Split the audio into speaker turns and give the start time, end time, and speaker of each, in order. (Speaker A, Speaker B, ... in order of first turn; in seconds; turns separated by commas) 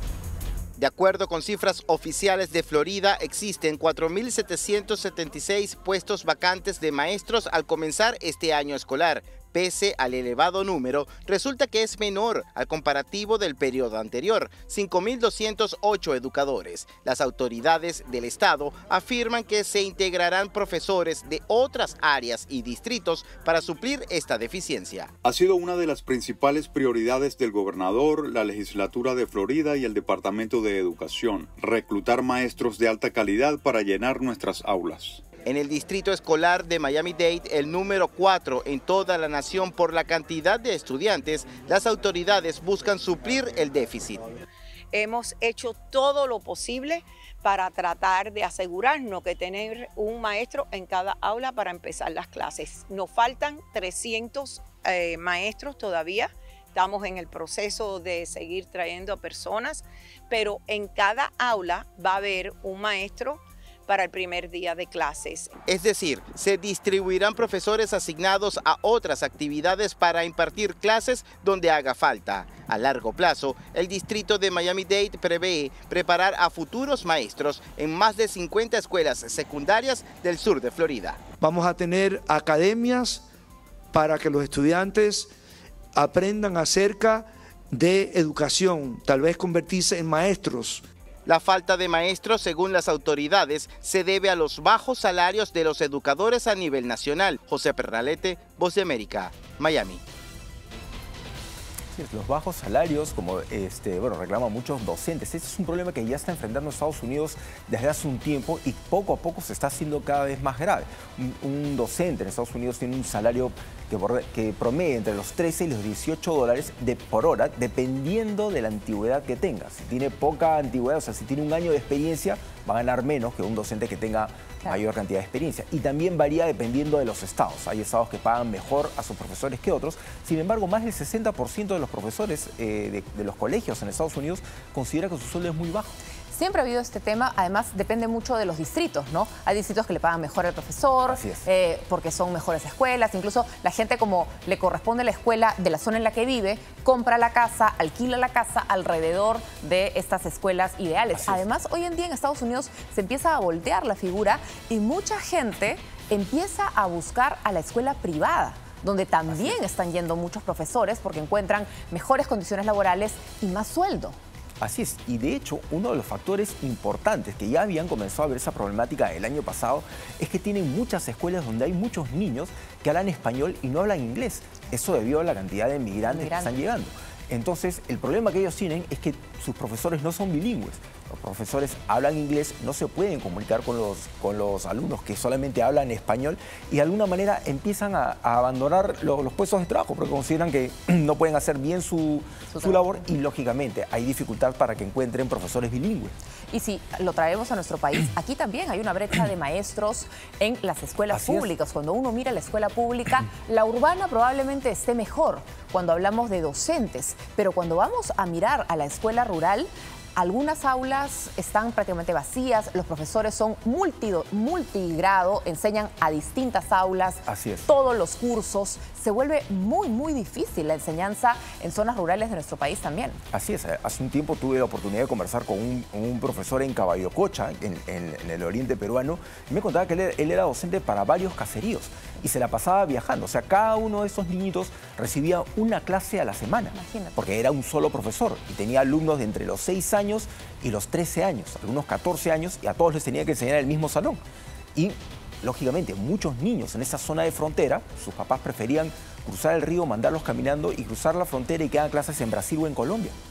Speaker A: 0.8-25.1, Speaker B: 25.2-35.2, Speaker A: 35.5-44.2, Speaker C: 44.9-65.5, Speaker A: 65.7-81.2, Speaker D: 81.5-83.2, Speaker D: 83.9-85.3, Speaker D: 86.0-87.2, Speaker D: 87.8-90.8, Speaker A: 91.2-100.0, Speaker E: 101.9-136.0, Speaker F: 136.3-164.2, Speaker E: 141.1-141.5, Speaker E: 151.2-151.4, Speaker E: 159.3-159.6, Speaker E: 164.6-196.1, Speaker F: 176.1-176.5, Speaker F: 192.5-193.0, Speaker F: 196.5-223.2, Speaker E: 201.1-201.5, Speaker E: 217.3-217.7, Speaker E: 223.3-244.2, Speaker F: 236.7-237.2, Speaker E: 244.7-253.1